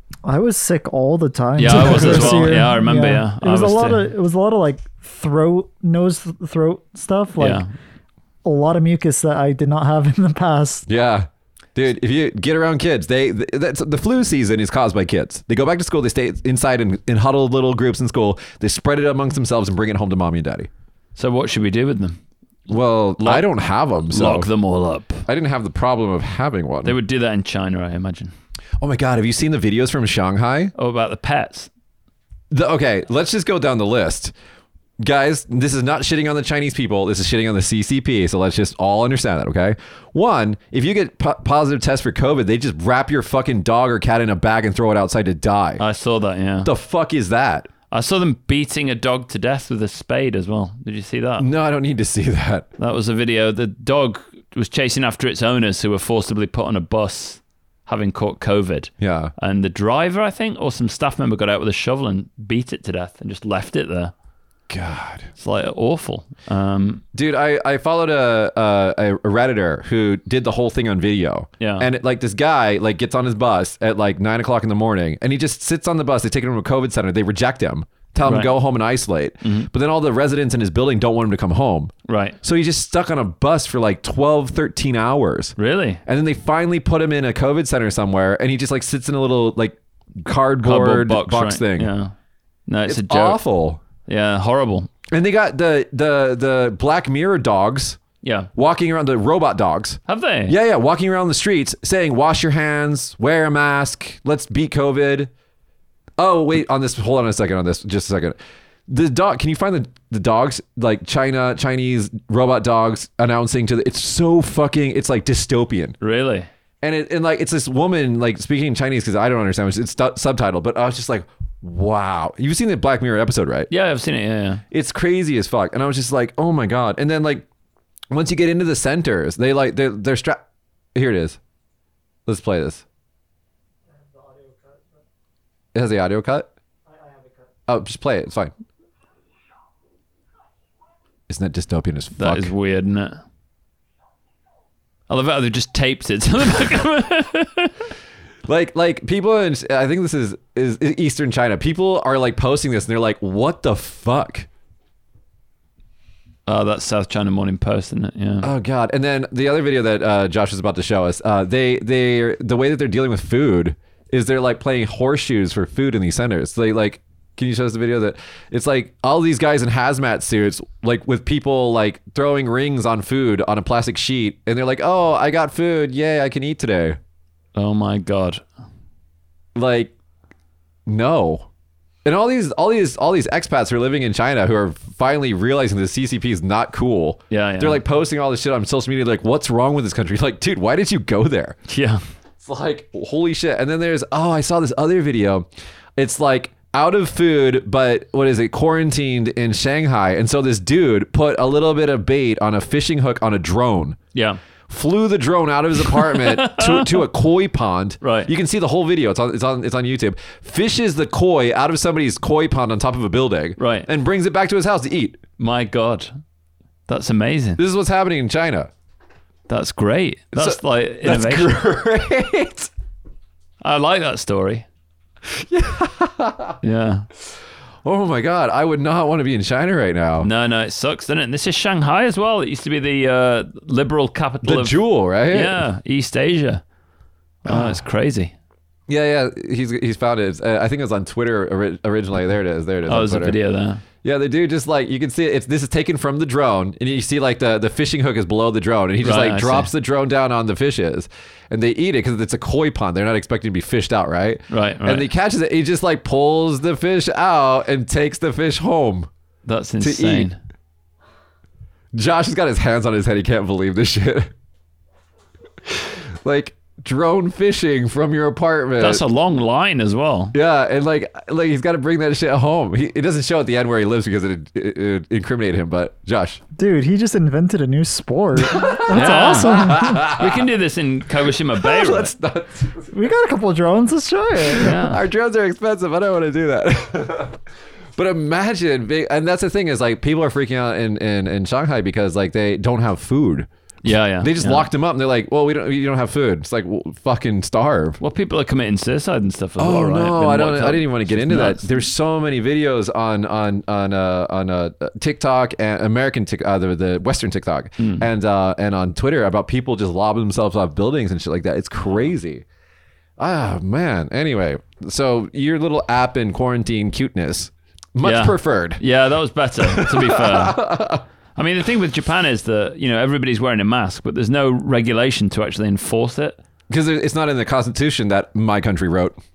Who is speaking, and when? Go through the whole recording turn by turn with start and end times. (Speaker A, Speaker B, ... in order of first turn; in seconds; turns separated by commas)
Speaker A: 0.2-7.7, Speaker B: 1.6-4.0, Speaker C: 1.7-2.5, Speaker B: 7.4-7.7, Speaker A: 8.4-10.8, Speaker C: 10.9-20.7, Speaker B: 21.1-22.2, Speaker C: 22.7-24.5, Speaker B: 23.2-23.4, Speaker B: 24.1-25.2, Speaker C: 25.2-26.9, Speaker B: 26.8-28.3, Speaker C: 28.8-30.7, Speaker B: 30.7-31.7, Speaker C: 32.5-34.3, Speaker C: 35.0-45.8, Speaker B: 45.8-46.7, Speaker C: 46.6-47.7, Speaker B: 47.9-51.5, Speaker C: 51.4-52.7, Speaker B: 52.8-64.1, Speaker C: 59.0-59.3, Speaker C: 64.7-65.3, Speaker B: 65.4-67.0, Speaker C: 67.1-91.9, Speaker B: 71.6-71.9, Speaker B: 78.2-78.5, Speaker B: 79.4-79.7, Speaker B: 82.1-82.4, Speaker B: 85.6-86.0, Speaker B: 90.6-92.1, Speaker B: 92.7-93.4, Speaker C: 92.8-93.8, Speaker B: 94.0-94.9, Speaker C: 95.1-98.0, Speaker B: 98.2-98.5, Speaker C: 98.5-105.3, Speaker B: 100.1-100.5, Speaker C: 106.2-108.4, Speaker C: 108.9-116.0, Speaker B: 116.0-116.5, Speaker C: 116.8-123.7, Speaker B: 123.7-124.6, Speaker C: 124.7-127.5, Speaker C: 128.1-130.4, Speaker C: 130.9-131.4, Speaker C: 132.2-132.8, Speaker A: 134.0-134.9, Speaker C: 135.7-136.5, Speaker A: 136.9-137.4, Speaker C: 137.7-138.5, Speaker C: 141.3-142.5, Speaker B: 142.2-143.2, Speaker B: 145.1-147.9, Speaker C: 148.5-154.5, Speaker B: 156.4-158.5, Speaker C: 158.4-177.0, Speaker B: 177.5-178.4, Speaker C: 179.5-179.9, Speaker C: 180.9-181.5, Speaker C: 182.0-191.6, Speaker B: 187.3-187.8, Speaker B: 191.7-192.0, Speaker C: 192.4-195.4, Speaker C: 196.0-204.0, Speaker B: 204.1-204.4, Speaker C: 204.7-215.2, Speaker B: 205.8-207.0, Speaker B: 208.0-208.3, Speaker B: 213.6-213.9, Speaker B: 215.4-216.1, Speaker B: 216.9-217.6, Speaker C: 217.6-218.7, Speaker B: 219.5-221.5, Speaker C: 220.3-222.7, Speaker B: 223.6-224.7, Speaker C: 225.3-226.6, Speaker B: 226.6-227.1, Speaker C: 227.8-230.3, Speaker B: 230.2-236.6, Speaker C: 234.4-235.6, Speaker B: 237.4-238.3, Speaker C: 237.5-237.8, Speaker C: 238.9-243.4, Speaker B: 242.9-243.8, Speaker C: 244.0-259.1, Speaker B: 249.0-249.7, Speaker B: 254.5-255.1, Speaker B: 259.4-260.4, Speaker C: 259.8-260.3, Speaker C: 261.9-264.3, Speaker C: 265.7-269.0, Speaker B: 268.8-270.3, Speaker C: 270.3-276.4, Speaker A: 276.6-280.1, Speaker C: 278.4-280.5, Speaker B: 278.9-282.1, Speaker C: 281.3-282.9, Speaker A: 282.9-284.8, Speaker C: 284.5-287.4, Speaker B: 284.5-285.0, Speaker C: 287.9-293.5, Speaker B: 293.8-294.7, Speaker C: 294.2-298.0, Speaker B: 298.0-301.8, Speaker C: 299.6-312.4, Speaker B: 307.8-308.0, Speaker C: 313.2-318.8, Speaker B: 318.0-320.6, Speaker C: 319.6-321.0, Speaker B: 321.4-326.4, Speaker C: 326.7-329.2